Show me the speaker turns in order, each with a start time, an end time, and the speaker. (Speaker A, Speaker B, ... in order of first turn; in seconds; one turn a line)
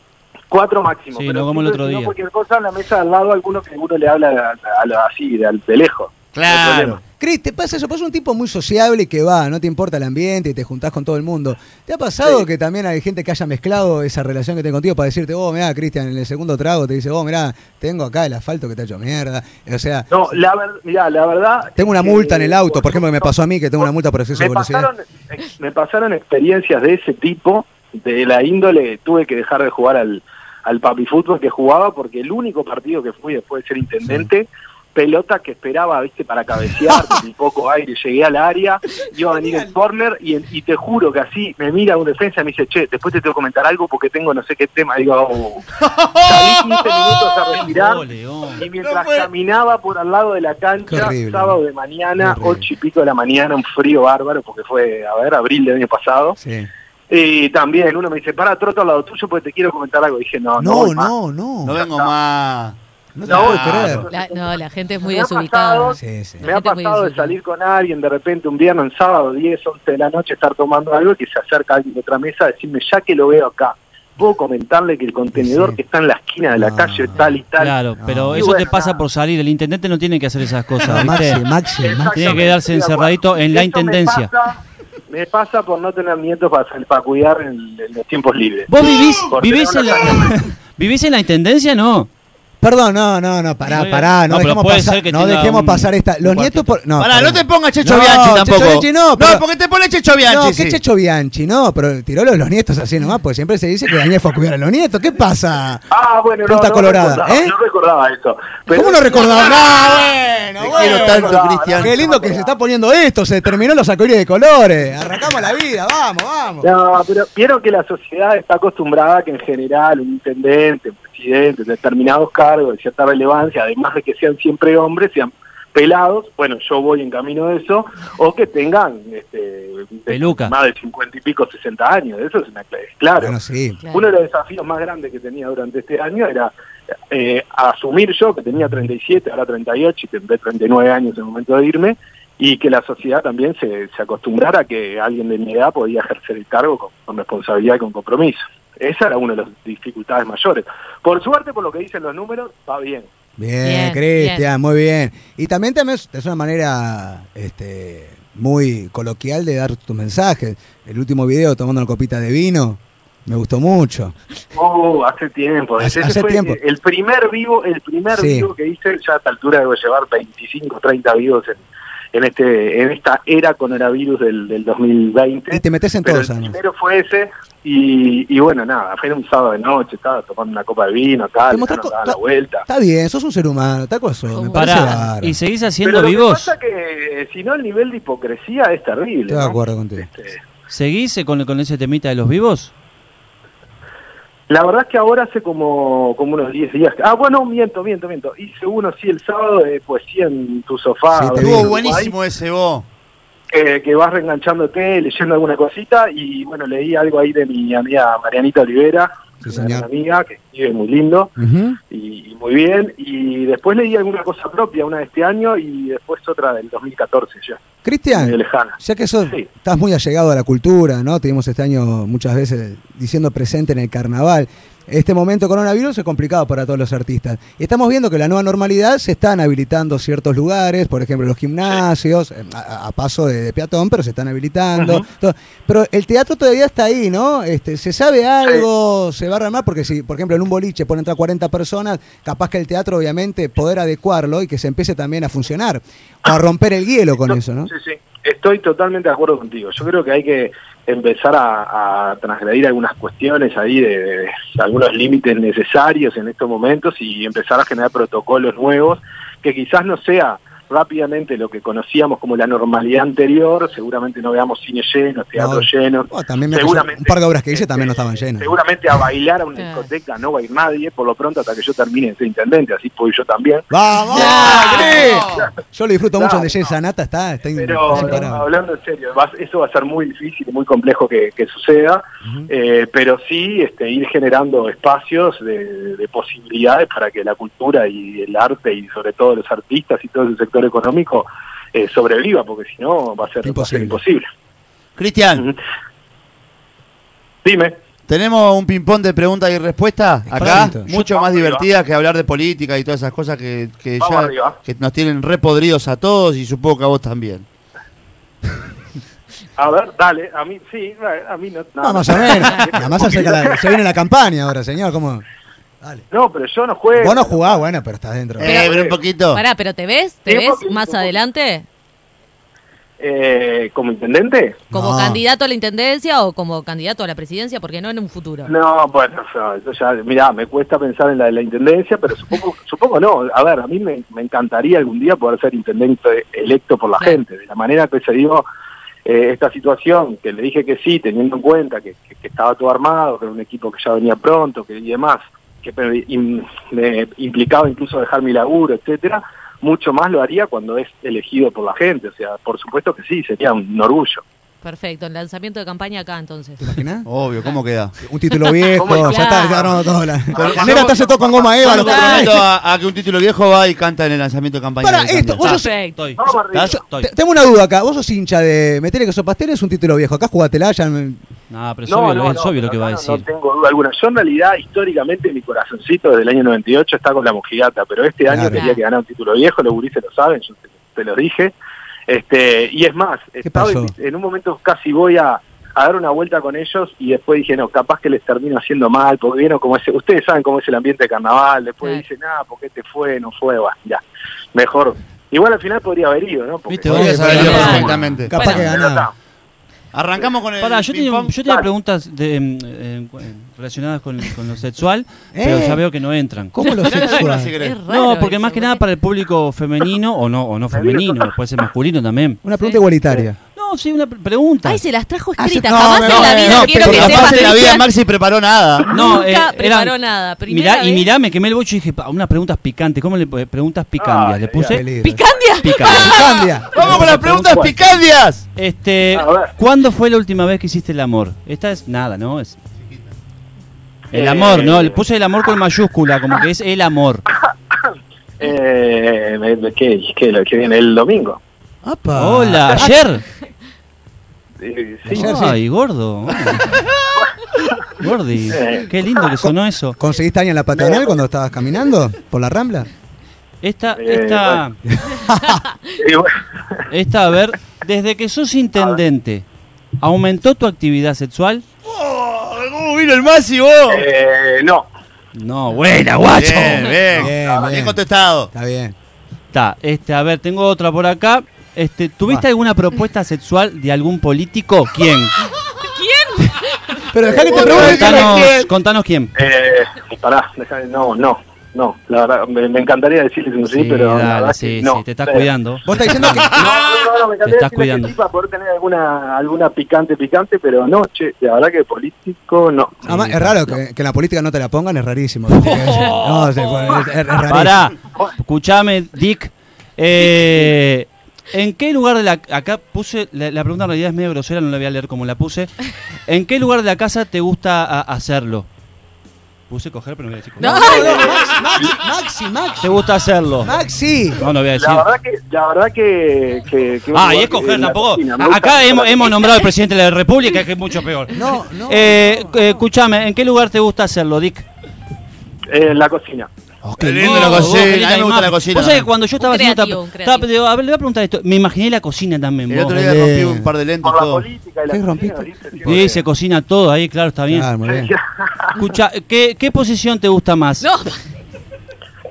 Speaker A: 0.5-7.0
Speaker B: 1.1-2.1
Speaker C: 6.3-7.0
Speaker D: 7.2-20.1
Speaker A: 20.1-23.3
Speaker D: 21.8-24.9
Speaker A: 24.4-45.7
Speaker D: 34.0-34.3
Speaker D: 39.3-39.7
Speaker C: 45.8-47.1
Speaker A: 46.2-48.0
Speaker B: 47.5-48.6
Speaker A: 48.5-56.4
Speaker C: 48.8-49.3
Speaker D: 50.9-51.6
Speaker D: 52.2-52.6
Speaker D: 56.4-56.7
Speaker A: 57.1-61.1
Speaker D: 60.6-61.8
Speaker C: 61.6-64.1
Speaker A: 61.7-62.1
Speaker D: 63.1-64.1
Speaker A: 63.2-77.8
Speaker E: 64.1-67.3
Speaker D: 66.0-66.5
Speaker D: 75.3-75.8
Speaker D: 76.5-77.2
Speaker B: 77.6-81.4
Speaker D: 78.0-78.5
Speaker A: 78.3-79.0
Speaker D: 80.8-82.5
Speaker A: 81.8-88.7
Speaker B: 82.1-84.3
Speaker B: 88.7-92.1
Speaker A: 89.3-90.3
Speaker D: 92.6-99.4
Speaker B: 93.7-96.8
Speaker C: 97.0-100.8
Speaker D: 100.3-105.8
Speaker A: 105.9-109.7
Speaker D: 106.5-107.5
Speaker D: 108.7-116.7
Speaker C: 110.6-111.9
Speaker A: 110.6-112.5
Speaker A: 116.6-133.3
Speaker B: 130.1-130.5
Speaker D: 133.2-133.8
Speaker A: 133.9-136.5
Speaker A: 137.1-153.1
Speaker D: 153.4-164.1
Speaker E: 153.6-154.4
Speaker A: 164.5-171.6
Speaker D: 165.8-166.6
Speaker D: 168.1-168.5
Speaker A: 172.1-182.7
Speaker D: 175.5-176.6
Speaker D: 181.5-185.3
Speaker E: 184.3-185.0
Speaker B: 184.5-186.5
Speaker A: 185.8-190.4
Speaker D: 189.3-190.1
Speaker B: 190.7-192.7
Speaker A: 194.5-202.1
Speaker D: 201.1-201.7
Speaker C: 201.3-202.8
Speaker A: 203.5-211.3
Speaker D: 209.4-209.9
Speaker D: 211.4-211.8
Speaker A: 211.9-217.6
Speaker D: 217.8-247.7
Speaker A: 218.1-219.5
Speaker A: 234.8-235.0
Speaker A: 247.3-275.5
Speaker D: 265.3-268.5
Speaker E: 269.6-269.9
Speaker D: 273.7-278.4
Speaker E: 274.1-275.1
Speaker C: 274.4-275.4
Speaker A: 276.2-276.6
Speaker A: 277.6-294.2
Speaker E: 277.9-278.2
Speaker D: 293.4-294.0
Speaker C: 295.0-295.4
Speaker A: 297.4-297.8
Speaker C: 298.1-307.4
Speaker D: 300.3-300.9
Speaker B: 300.4-301.1
Speaker A: 300.9-301.6
Speaker A: 304.0-304.6
Speaker A: 309.6-313.7
Speaker D: 311.8-315.2
Speaker A: 316.1-317.6
Speaker D: 316.9-318.6
Speaker C: 318.4-319.4
Speaker E: 318.4-321.6
Speaker A: 318.6-318.9
Speaker A: 320.3-321.1
Speaker A: 323.0-324.7
Speaker E: 324.7-328.5
Speaker D: 324.7-325.2
Speaker A: 328.5-338.4
Speaker A: 339.0-354.2
Speaker E: 354.6-356.7
Speaker D: 356.6-357.1
Speaker C: 357.1-357.9
Speaker D: 358.0-362.4
Speaker E: 358.7-359.7
Speaker A: 358.8-359.8
Speaker A: 360.3-362.2
Speaker C: 360.3-365.5
Speaker E: 361.8-362.2
Speaker D: 364.8-365.7
Speaker B: 365.4-367.1
Speaker E: 365.5-366.0
Speaker A: 366.2-366.8
Speaker C: 366.5-366.8
Speaker D: 366.7-371.2
Speaker B: 371.5-373.2
Speaker A: 371.9-381.5
Speaker D: 378.3-378.6
Speaker E: 378.5-378.8
Speaker A: 382.1-394.0
Speaker D: 383.4-383.9
Speaker A: 394.5-397.6
Speaker B: 396.7-398.5
Speaker D: 396.9-399.1
Speaker C: 396.9-398.4
Speaker E: 397.4-398.7
Speaker A: 398.4-399.1
Speaker C: 399.9-401.3
Speaker B: 400.6-406.9
Speaker D: 405.3-405.8
Speaker D: 406.5-407.5
Speaker E: 406.7-408.8
Speaker C: 406.9-407.8
Speaker B: 407.9-412.4
Speaker A: 410.7-411.3
Speaker D: 412.4-413.4
Speaker B: 413.5-414.8
Speaker E: 414.6-417.8
Speaker D: 415.4-417.5
Speaker C: 416.1-418.9
Speaker B: 416.1-417.4
Speaker E: 418.9-421.1
Speaker B: 418.9-424.8
Speaker A: 424.0-424.8
Speaker D: 424.7-425.2
Speaker E: 425.0-426.5
Speaker B: 425.6-426.3
Speaker D: 425.8-427.5
Speaker C: 426.7-428.4
Speaker A: 426.8-427.8
Speaker B: 428.6-432.6
Speaker A: 429.1-429.5
Speaker C: 432.8-433.1
Speaker B: 434.1-437.3
Speaker A: 434.1-435.0
Speaker A: 438.4-441.4
Speaker D: 441.8-443.0
Speaker B: 442.1-443.2
Speaker A: 444.6-445.3
Speaker D: 445.1-445.6
Speaker B: 445.1-446.8
Speaker B: 448.0-450.0
Speaker A: 448.5-449.0
Speaker D: 449.4-452.9
Speaker A: 450.7-451.1
Speaker B: 453.6-454.8
Speaker A: 454.0-454.6
Speaker D: 454.9-455.6
Speaker A: 456.0-456.8
Speaker B: 456.9-459.4
Speaker B: 460.0-461.6
Speaker C: 461.9-464.1
Speaker A: 463.9-464.9
Speaker B: 465.3-467.0
Speaker C: 466.3-468.5
Speaker D: 467.1-468.0
Speaker D: 468.5-468.9
Speaker B: 469.5-475.3
Speaker E: 475.8-477.1
Speaker D: 477.1-478.7
Speaker A: 477.2-478.4
Speaker B: 477.5-479.3
Speaker C: 477.9-478.2
Speaker A: 479.3-485.5
Speaker B: 483.7-486.4
Speaker D: 485.8-486.6
Speaker A: 486.4-493.1
Speaker B: 487.4-488.1
Speaker D: 493.1-497.8
Speaker B: 493.1-493.7
Speaker B: 495.6-496.5
Speaker E: 495.7-496.1
Speaker B: 497.5-508.7
Speaker B: 509.7-511.2
Speaker E: 510.6-511.4
Speaker D: 510.6-512.9
Speaker A: 510.7-511.9
Speaker B: 512.8-513.7
Speaker D: 513.6-514.4
Speaker B: 514.4-515.1
Speaker A: 514.7-519.4
Speaker B: 517.1-524.6
Speaker D: 521.3-522.7
Speaker A: 525.7-526.5
Speaker B: 526.8-533.0
Speaker C: 527.0-529.1
Speaker E: 529.4-530.5
Speaker C: 532.7-534.5
Speaker D: 532.9-533.7
Speaker A: 534.0-536.2
Speaker D: 534.9-535.5
Speaker B: 535.8-537.7
Speaker D: 537.5-538.1
Speaker A: 537.9-538.8
Speaker B: 538.7-540.9
Speaker E: 540.8-541.2